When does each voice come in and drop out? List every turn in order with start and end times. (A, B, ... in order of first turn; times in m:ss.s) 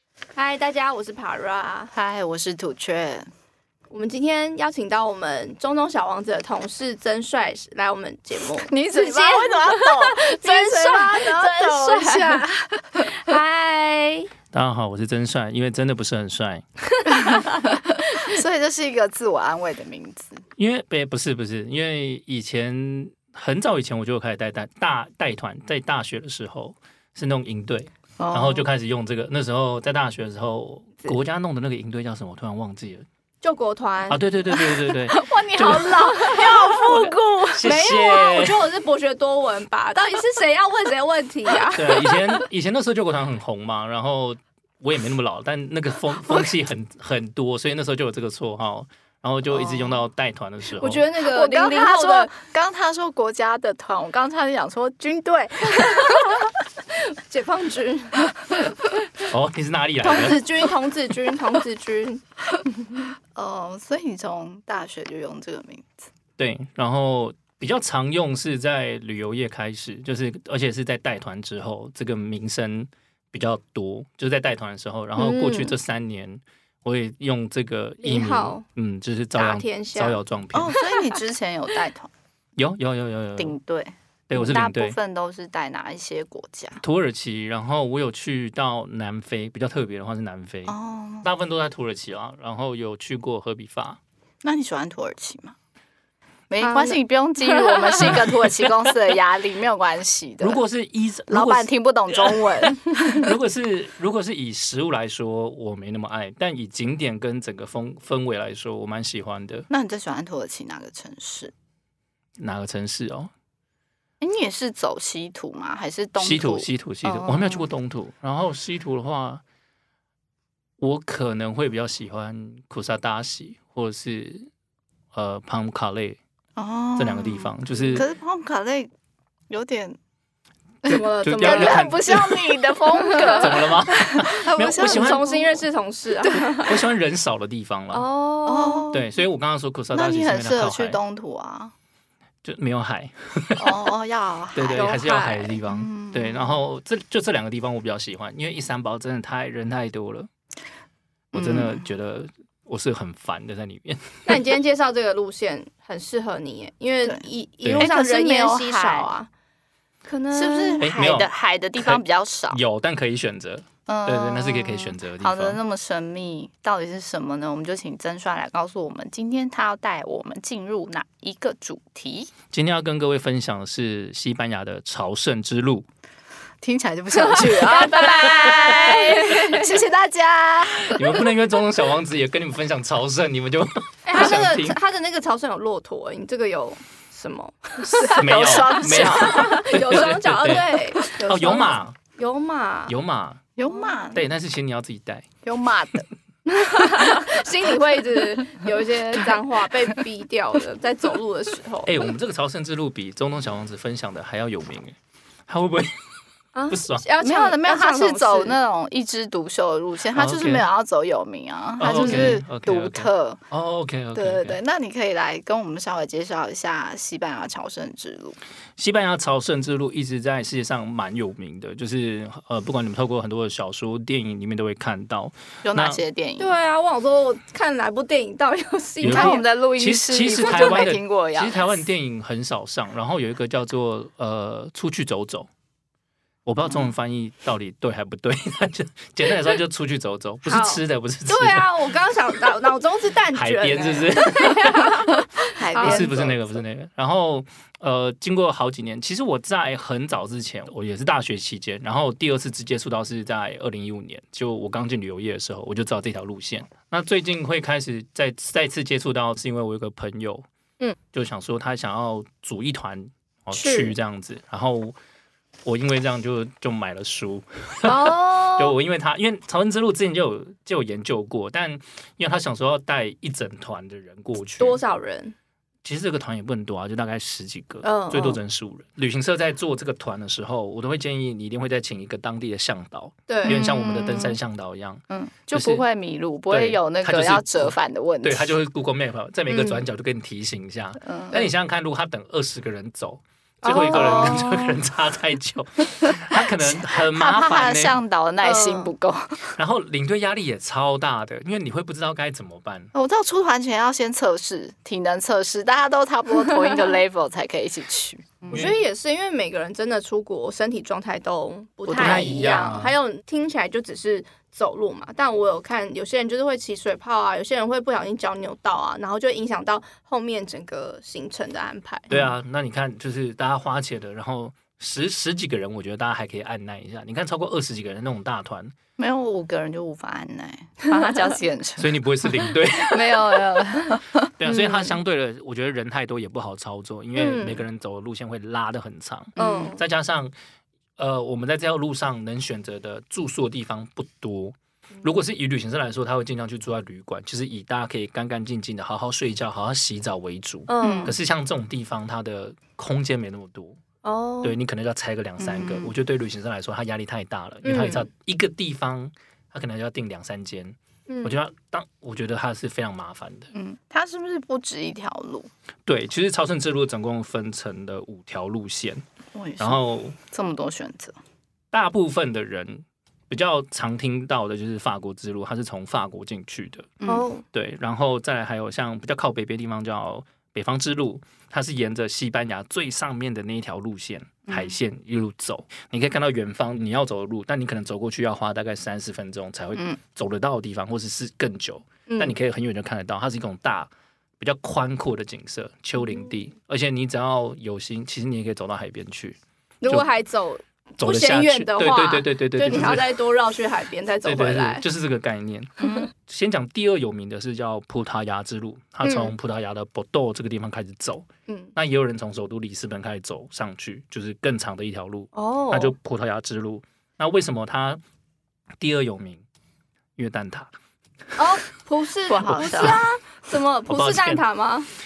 0:00.4-0:01.9 A
0:01.9-0:03.3 B
0:03.9-0:12.5 A
0:08.6-0:13.4 B
0:13.1-0:14.3 A
0:14.5-0:16.6 C
0:17.0-0:18.4 A
0:17.1-0:20.4 B
0:20.6-0:33.0 C
0:28.2-0:28.7 B
0:33.4-0:34.2 A
0:34.1-0:36.0 C
0:34.5-0:37.7 B
0:35.6-0:36.9 A
0:36.9-0:38.6 C
0:37.6-0:42.2 A
0:41.7-0:51.1 C
0:49.5-0:49.9 B
0:50.8-0:52.3 A
0:51.2-0:56.6 B
0:55.8-0:56.4 A
0:57.0-0:58.3 A
0:59.2-1:00.4 C
1:00.0-1:02.2 A
1:03.3-1:06.1 B
1:06.4-1:20.8 C
1:15.2-1:15.8 A
1:18.0-1:18.6 A
1:19.4-1:20.2 A
1:20.5-1:22.1 B
1:20.8-1:21.2 A
1:22.6-1:23.6 C
1:23.4-1:26.8 B
1:24.3-1:25.0 C
1:26.8-1:34.0 C
1:30.7-1:31.3 B
1:34.4-1:35.6 B
1:36.5-1:40.6 B
1:36.6-1:38.2 A
1:38.0-1:38.9 C
1:40.4-1:49.7 C
1:41.3-1:43.3 B
1:49.7-1:51.5 B
1:52.4-1:53.3 C
1:54.2-1:57.6 B
1:56.2-1:59.4 C
2:00.8-2:04.5 C
2:05.1-2:06.2 C
2:06.6-2:08.9 B
2:07.0-2:08.1 C
2:09.5-2:10.0 B
2:10.8-2:12.0 A
2:10.8-2:12.6 C
2:10.9-2:15.6 B
2:12.9-2:13.7 A
2:13.3-2:15.3 C
2:14.4-2:16.8 A
2:16.6-2:18.1 C
2:17.9-2:18.9 A
2:18.5-2:19.1 B
2:18.9-2:21.0 C
2:19.9-2:21.7 B
2:22.4-2:23.9 C
2:23.6-2:25.0 B
2:24.5-2:30.3 C
2:24.7-2:25.6 A
2:25.6-2:26.6 B
2:31.3-2:34.4 C
2:31.3-2:31.9 B
2:34.3-2:39.3 A
2:37.6-2:37.9 C
2:37.8-2:39.1 B
2:40.0-2:40.9 A
2:40.3-2:42.6 B
2:40.8-2:45.6 C
2:43.9-2:52.3 B
2:52.5-2:55.9 C
2:56.6-3:01.2 B
2:57.2-2:59.7 A
2:58.3-2:58.9 C
3:00.8-3:04.8 C
3:04.0-3:12.9 A
3:07.9-3:12.0 C
3:08.0-3:09.6 B
3:12.9-3:13.4 C
3:13.6-3:14.2 B
3:13.7-3:14.0 A
3:14.1-3:15.3 C
3:15.4-3:16.1 B
3:16.5-3:22.1 A
3:21.8-3:25.0 C
3:25.5-3:26.0 C
3:26.6-3:28.6 A
3:26.7-3:27.0 C
3:27.2-3:33.4 B
3:30.2-3:30.7 C
3:31.8-3:34.6 C
3:31.9-3:32.4 A
3:34.1-3:38.4 B
3:38.8-3:46.0 C
3:45.6-3:46.6 B
3:46.4-3:49.4 A
3:49.0-3:55.5 C
3:49.0-3:51.6 B
3:50.5-3:50.8 A
3:56.4-4:01.9 C
4:00.4-4:06.1 A
4:03.3-4:05.1 C
4:05.6-4:06.6 B
4:05.8-4:20.5 C
4:21.1-4:25.0 C
4:23.6-4:24.0 A
4:25.6-4:34.8 C
4:27.8-4:28.7 A
4:34.6-4:35.4 A
4:35.8-4:45.8 C
4:37.8-4:38.4 A
4:43.3-4:43.6 A
4:43.4-4:44.4 B
4:45.1-4:48.6 B
4:46.5-4:58.0 C
4:49.5-4:49.8 A
4:51.0-4:51.5 B
4:53.6-4:54.5 A
4:53.9-4:54.7 B
4:56.4-4:59.6 B
4:58.4-4:58.9 A
4:59.6-5:02.9 C
5:02.9-5:08.7 B
5:06.5-5:06.9 A
5:08.5-5:08.8 C
5:08.5-5:22.2 A
5:11.9-5:12.8 B
5:12.0-5:12.9 C
5:22.1-5:28.7 C
5:29.0-5:34.9 B
5:30.8-5:31.2 A
5:31.8-5:33.6 C
5:34.4-5:40.3 C
5:34.6-5:34.9 A
5:37.2-5:37.6 A
5:39.4-5:39.8 B
5:39.4-5:39.8 A
5:41.0-5:53.8 C
5:50.7-5:51.2 A
5:50.8-5:51.2 B
5:54.0-5:54.6 A
5:54.4-6:03.5 C
5:55.4-5:55.9 B
5:57.6-5:58.1 A
6:01.1-6:01.4 A
6:03.5-6:05.5 B
6:05.9-6:09.0 C
6:09.3-6:11.2 B
6:09.6-6:10.2 C
6:11.7-6:16.9 C
6:17.0-6:17.3 B
6:17.1-6:17.4 A
6:17.5-6:40.1 C
6:24.5-6:24.8 B
6:32.1-6:32.4 A
6:36.1-6:36.3 A
6:39.8-6:44.8 A
6:41.0-6:43.1 C
6:44.2-6:58.0 C
6:45.8-6:46.1 B
6:45.8-6:46.1 A
6:49.0-6:49.3 A
6:51.5-6:51.7 A
6:55.4-6:55.9 A
6:58.8-6:59.4 C
7:00.2-7:00.7 C
7:01.4-7:04.9 A
7:02.3-7:03.0 B
7:02.6-7:03.0 C
7:03.9-7:04.4 C